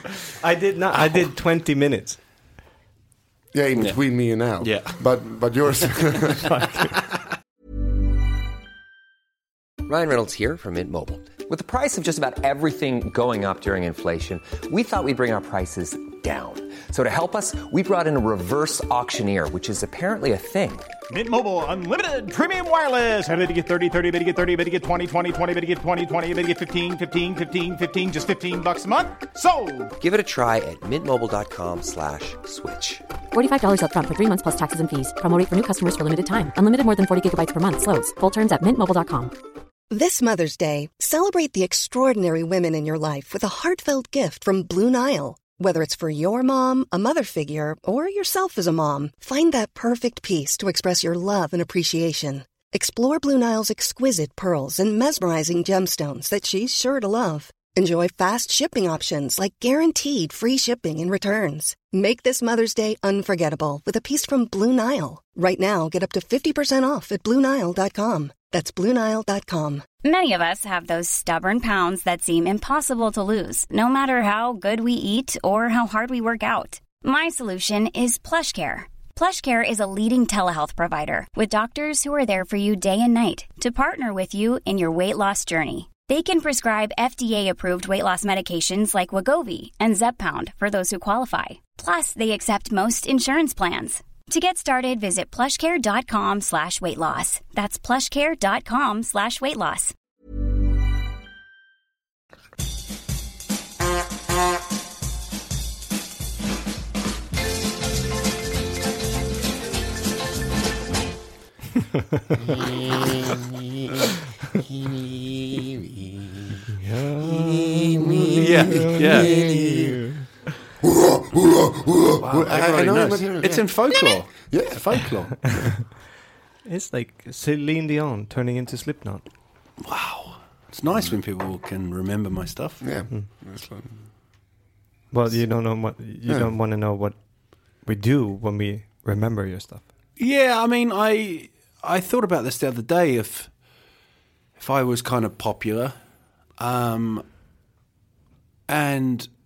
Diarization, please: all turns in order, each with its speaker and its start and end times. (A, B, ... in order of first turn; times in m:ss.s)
0:00.4-0:02.2 A
0:00.9-0:01.2 B
0:03.5-0:06.5 C
0:04.6-0:05.0 B
0:06.5-0:06.8 A
0:09.9-0:20.9 D
0:21.1-0:29.9 E
0:30.0-0:33.0 D
0:33.3-0:39.3 F
0:39.9-1:09.9 G
1:10.0-1:39.9 H
1:54.7-1:56.7 C
1:56.8-2:00.3 A
1:57.3-2:00.0 C
1:58.4-1:59.3 B
2:00.8-2:03.7 C
2:02.2-2:05.4 B
2:04.5-2:04.8 C
2:06.7-2:09.2 A
2:09.8-2:12.8 B
2:12.8-2:13.9 C
2:15.1-2:17.2 A
2:17.8-2:19.8 A
2:20.2-2:23.5 B
2:24.6-2:26.0 B
2:26.6-2:27.2 B
2:28.7-2:29.3 B